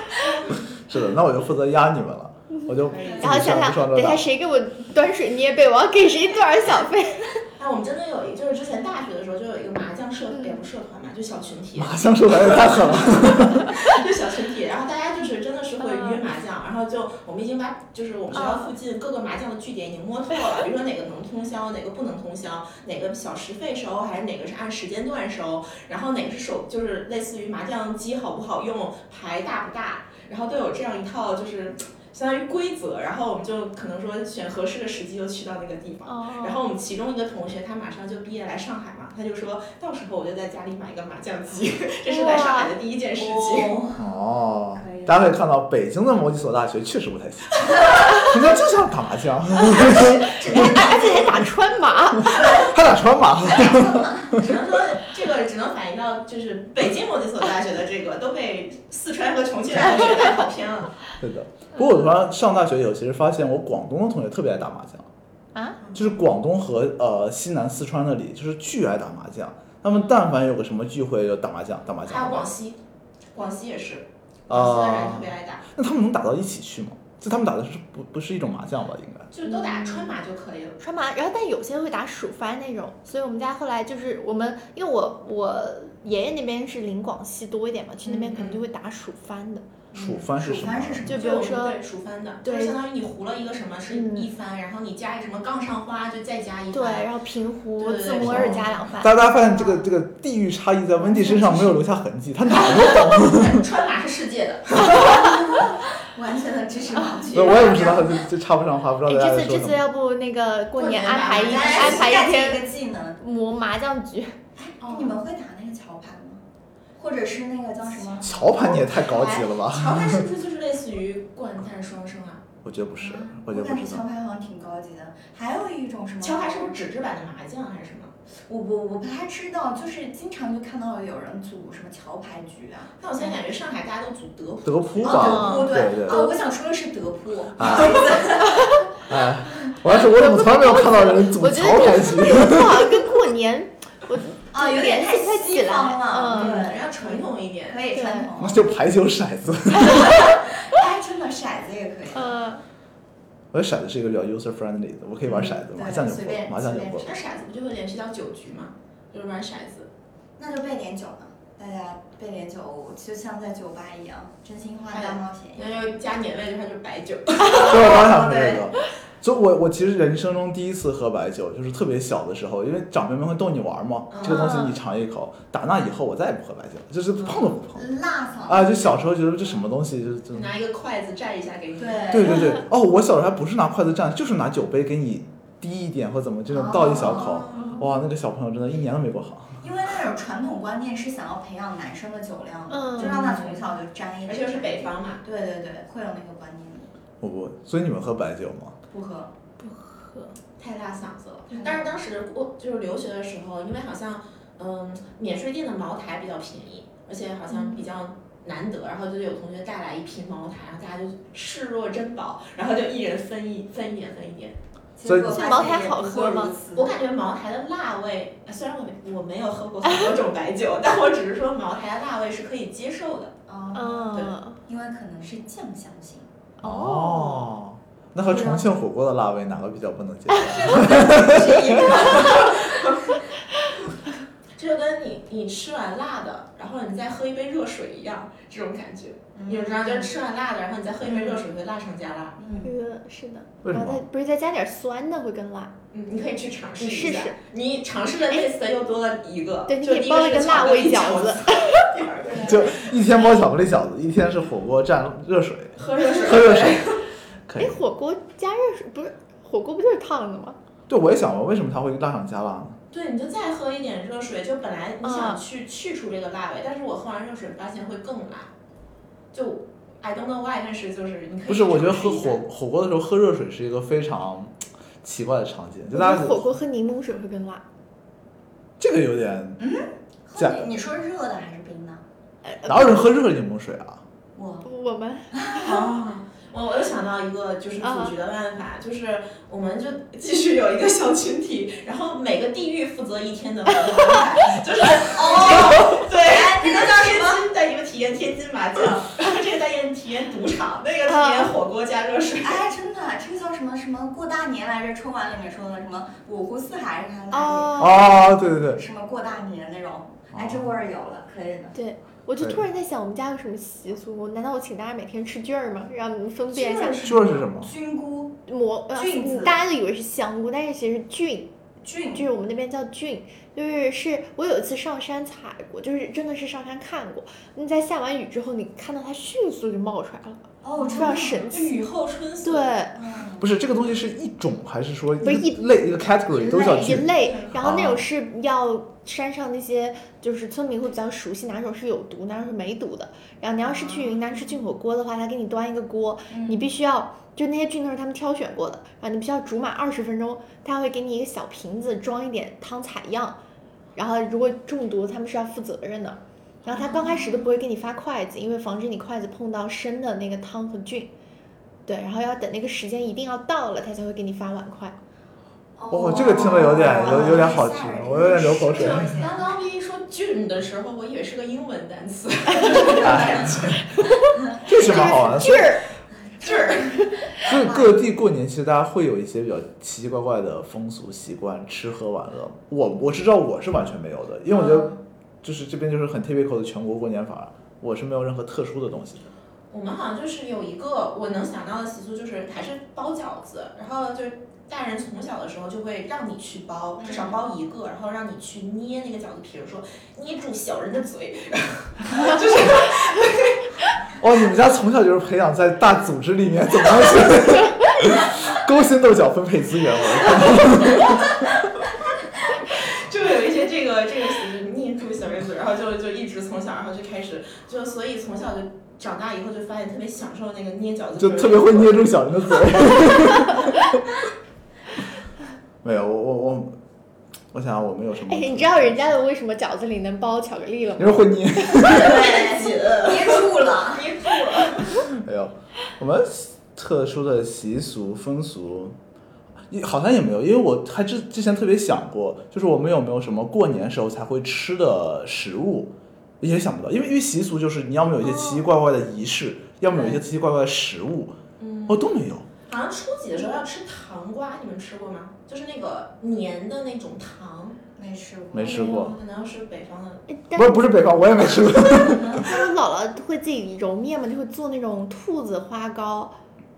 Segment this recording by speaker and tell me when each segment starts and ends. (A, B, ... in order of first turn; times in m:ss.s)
0:00.7-0:04.2 A
0:02.9-0:03.2 B
0:02.9-0:03.3 C
0:03.2-0:07.4 D
0:07.6-0:43.8 B
0:10.3-0:10.6 D
0:11.8-0:13.8 A
0:15.8-0:16.2 D
0:18.3-0:18.7 D
0:36.1-0:36.6 D
0:42.1-0:42.7 D
0:43.2-0:44.0 C
0:44.0-0:50.9 A
0:44.8-0:45.2 C
0:49.8-0:52.7 D
0:50.4-0:51.1 C
0:52.2-0:54.5 A
0:52.3-0:52.8 C
0:53.3-0:54.5 C
0:54.4-1:00.9 B
1:01.2-1:05.1 A
1:05.9-1:12.5 A
1:12.0-1:12.8 B
1:13.3-1:15.6 B
1:14.5-1:19.3 A
1:19.3-1:20.8 B
1:19.5-1:20.1 D
1:20.8-1:29.6 D
1:28.0-1:28.6 B
1:29.9-1:31.2 A
1:29.9-1:31.4 C
1:31.1-1:37.1 B
1:31.1-1:31.8 D
1:32.4-1:32.8 D
1:33.9-1:34.3 D
1:36.7-1:39.3 D
1:37.8-1:38.6 B
1:38.2-1:43.6 A
1:39.5-1:39.8 C
1:41.0-1:41.8 C
1:42.5-1:45.6 B
1:44.9-1:48.3 C
1:47.3-1:47.8 B
1:47.3-1:49.9 A
1:49.1-1:52.7 D
1:50.8-1:52.2 B
1:51.3-1:53.2 C
1:53.2-1:54.4 D
1:54.6-1:56.4 C
1:54.8-1:55.2 B
1:57.0-1:58.8 C
1:58.2-2:00.2 A
1:58.6-2:02.4 B
2:02.6-2:04.0 A
2:03.0-2:06.8 C
2:06.2-2:08.1 B
2:08.5-2:13.4 C
2:13.0-2:15.3 B
2:14.6-2:16.4 A
2:15.0-2:18.9 C
2:15.1-2:15.8 D
2:17.6-2:18.2 A
2:18.5-2:18.9 D
2:19.1-2:23.0 A
2:19.9-2:26.7 D
2:24.5-2:28.7 C
2:26.3-2:27.9 B
2:27.9-2:28.3 D
2:28.4-2:30.2 A
2:29.8-2:30.5 D
2:29.9-2:32.4 C
2:32.1-2:32.6 D
2:33.5-2:37.1 A
2:35.3-2:37.3 C
2:37.0-2:39.9 B
2:40.4-2:45.9 C
2:44.9-2:48.6 B
2:47.5-2:57.8 A
2:47.8-2:48.5 C
2:54.1-2:54.6 B
2:54.2-2:54.6 C
2:57.2-2:58.9 C
2:58.5-3:00.5 A
3:00.3-3:02.4 B
3:01.8-3:02.6 C
3:02.1-3:09.6 A
3:06.5-3:07.4 C
3:07.0-3:07.8 B
3:07.6-3:07.8 D
3:09.6-3:16.9 C
3:12.7-3:13.2 D
3:13.0-3:15.2 B
3:17.2-3:18.8 A
3:18.9-3:19.3 C
3:19.6-3:20.4 D
3:20.6-3:34.6 B
3:21.5-3:21.9 C
3:27.5-3:27.9 D
3:35.0-3:37.0 C
3:35.0-3:35.6 A
3:35.3-3:36.6 D
3:36.7-3:43.3 B
3:43.5-3:46.3 C
3:43.8-3:44.6 D
3:46.6-3:47.5 D
3:46.6-3:52.4 A
3:48.3-3:48.7 C
3:50.3-3:50.6 D
3:50.4-3:53.2 C
3:54.6-4:02.4 B
3:59.4-4:00.2 C
4:01.1-4:01.4 C
4:02.4-4:02.7 C
4:02.6-4:05.7 D
4:03.6-4:04.0 A
4:05.9-4:12.9 B
4:06.8-4:07.4 D
4:09.7-4:11.8 D
4:12.2-4:12.7 C
4:12.4-4:17.8 A
4:15.8-4:17.0 B
4:17.6-4:20.6 D
4:20.9-4:22.8 A
4:22.9-4:28.5 B
4:25.0-4:25.4 D
4:29.3-4:32.4 B
4:31.5-4:36.5 A
4:35.9-4:37.6 D
4:38.8-4:39.6 A
4:39.6-4:42.0 C
4:40.4-4:40.7 A
4:42.4-4:43.0 D
4:42.7-4:44.0 A
4:44.4-4:44.7 C
4:44.6-4:45.7 D
4:45.3-4:46.0 C
4:45.6-5:02.6 B
4:47.8-4:48.2 D
4:55.1-4:57.4 C
5:01.1-5:01.5 D
5:02.4-5:11.8 C
5:07.3-5:08.2 D
5:07.8-5:08.8 A
5:10.3-5:10.6 A
5:11.7-5:17.2 D
5:16.5-5:18.4 C
5:17.0-5:17.7 A
5:18.5-5:21.5 D
5:18.9-5:19.6 C
5:21.8-5:22.2 C
5:22.1-5:31.8 D
5:30.6-5:31.5 C
5:30.8-5:32.8 B
5:32.4-5:33.0 D
5:33.0-5:33.5 C
5:33.4-5:38.0 A
5:35.2-5:35.6 D
5:36.3-5:37.1 C
5:36.5-5:53.4 D
5:37.3-5:37.5 B
5:43.6-5:44.2 C
5:46.3-5:46.7 C
5:54.0-6:01.1 D
5:56.7-5:57.4 C
6:01.9-6:05.0 D
6:05.8-6:09.5 C
6:05.9-6:09.1 A
6:07.0-6:07.6 D
6:08.6-6:14.1 B
6:12.6-6:13.0 D
6:12.6-6:13.5 C
6:13.0-6:13.5 A
6:14.0-6:15.8 D
6:14.7-6:15.8 A
6:14.8-6:15.4 C
6:16.4-6:17.0 B
6:16.4-6:18.0 C
6:17.4-6:29.3 A
6:24.5-6:25.0 C
6:29.7-6:43.6 B
6:37.0-6:37.4 C
6:44.2-6:51.5 A
6:52.7-7:02.1 B
7:01.2-7:04.0 A
7:05.8-7:06.7 A
7:07.5-7:09.2 A
7:08.3-7:11.8 D
7:11.0-7:12.2 A
7:11.8-7:15.2 B
7:11.9-7:14.1 C
7:15.2-7:19.0 A
7:19.7-7:32.5 A
7:28.3-7:28.6 D
7:31.6-7:32.1 B
7:32.7-7:37.8 B
7:38.0-7:39.0 C
7:38.5-7:39.2 A
7:38.7-7:40.2 B
7:40.3-7:40.8 D
7:40.5-7:42.5 A
7:41.9-7:42.6 C
7:42.3-7:46.4 D